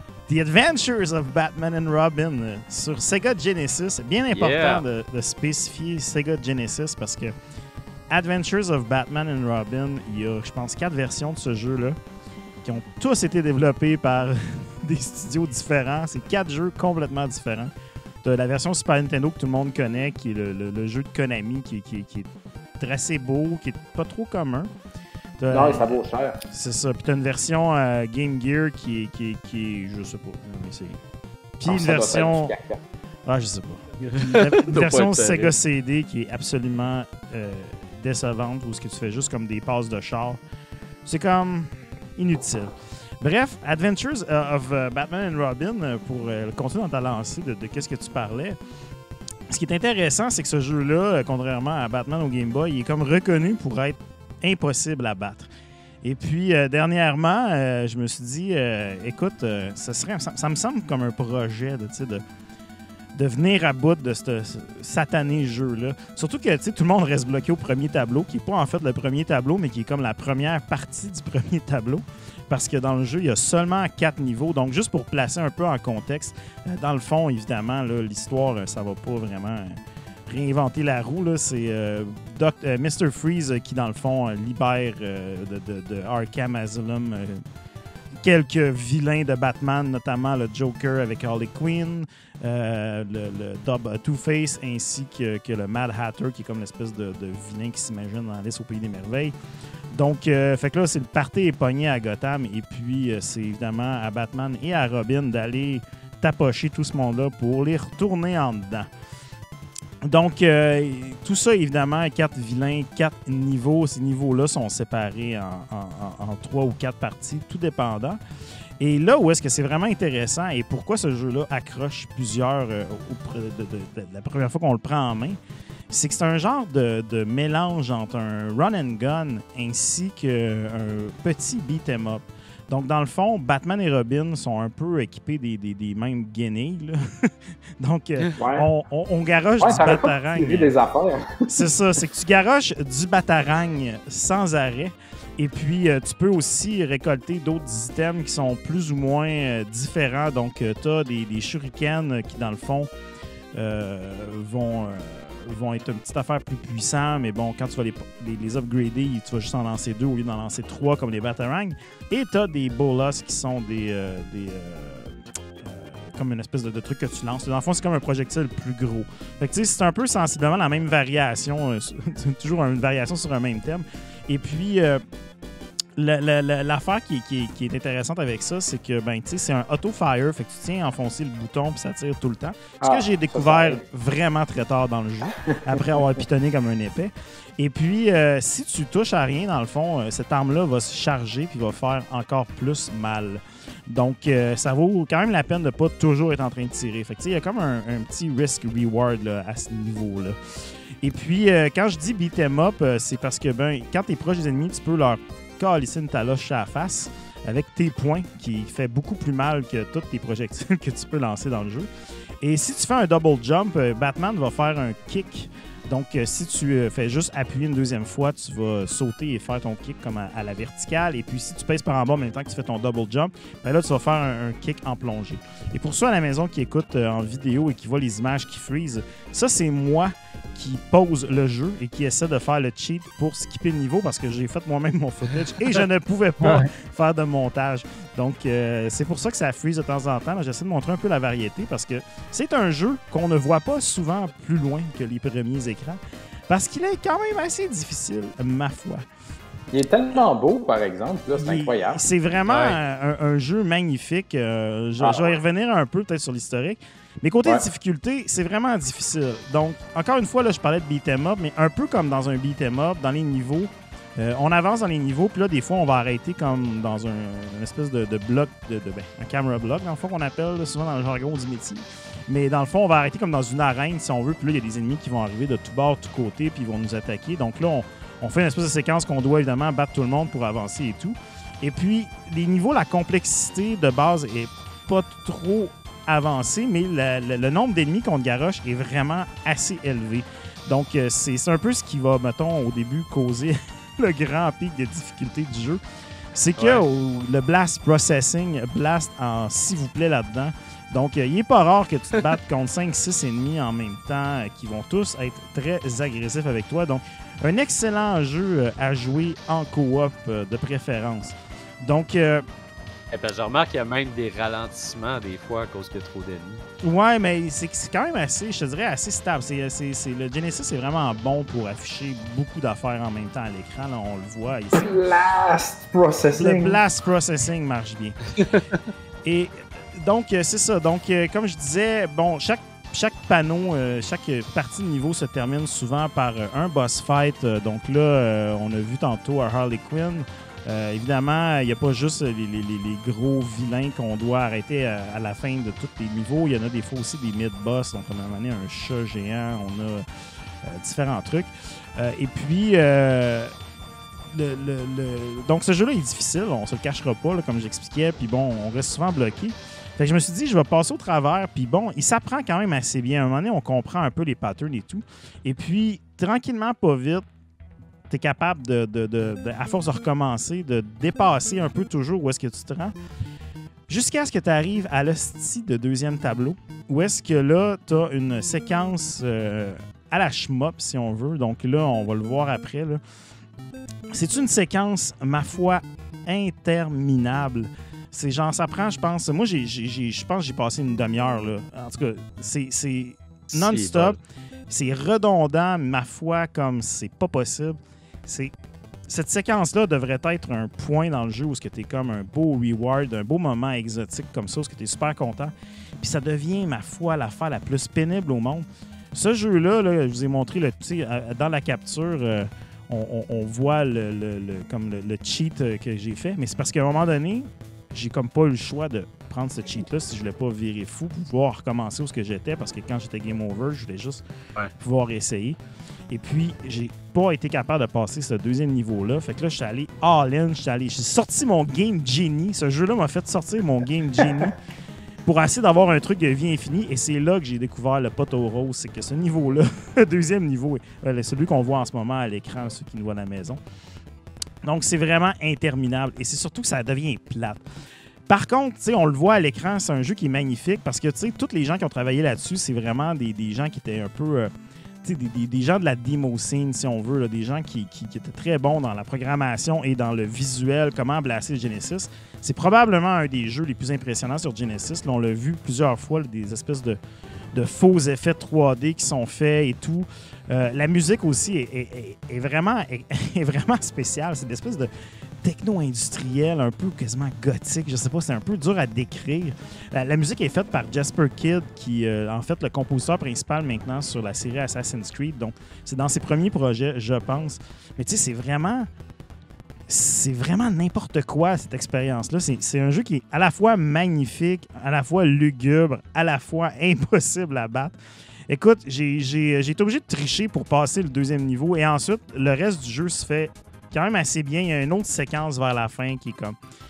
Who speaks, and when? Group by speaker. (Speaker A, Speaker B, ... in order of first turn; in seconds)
Speaker A: 0.3-7.3, 8.1-12.0, 12.6-17.7, 18.2-22.3, 22.8-24.7, 25.4-31.0, 31.6-32.5, 33.3-40.4, 41.0-48.6, 49.5-55.5, 56.0-62.2, 63.1-87.4, 88.2-99.3, 99.9-108.9, 110.0-118.2, 118.8-125.4, 125.9-137.0, 137.8-140.7, 141.5-152.9, 153.6-175.0, 176.0-200.3, 201.0-211.9, 212.4-249.0, 251.3-295.8, 296.3-312.4, 316.8-324.9, 326.3-328.2, 329.2-350.0, 350.6-353.5, 354.3-367.2, 368.1-372.9, 373.9-383.0, 384.1-394.2, 394.7-398.5, 399.1-424.2, 424.8-425.6, 426.1-434.6, 435.2-443.6, 444.6-447.6, 448.3-454.5, 455.0-467.0, 467.5-474.9, 475.4-488.9, 489.9-497.9, 498.5-506.6
Speaker B: 4.3-4.8, 34.0-35.5, 252.4-252.8, 296.6-296.8, 313.1-316.6, 393.5-394.2
Speaker C: 25.5-26.4, 31.6-32.8, 138.4-138.7, 139.6-141.5, 182.8-183.8, 185.7-186.1, 249.7-252.0, 255.0-255.3, 324.7-326.8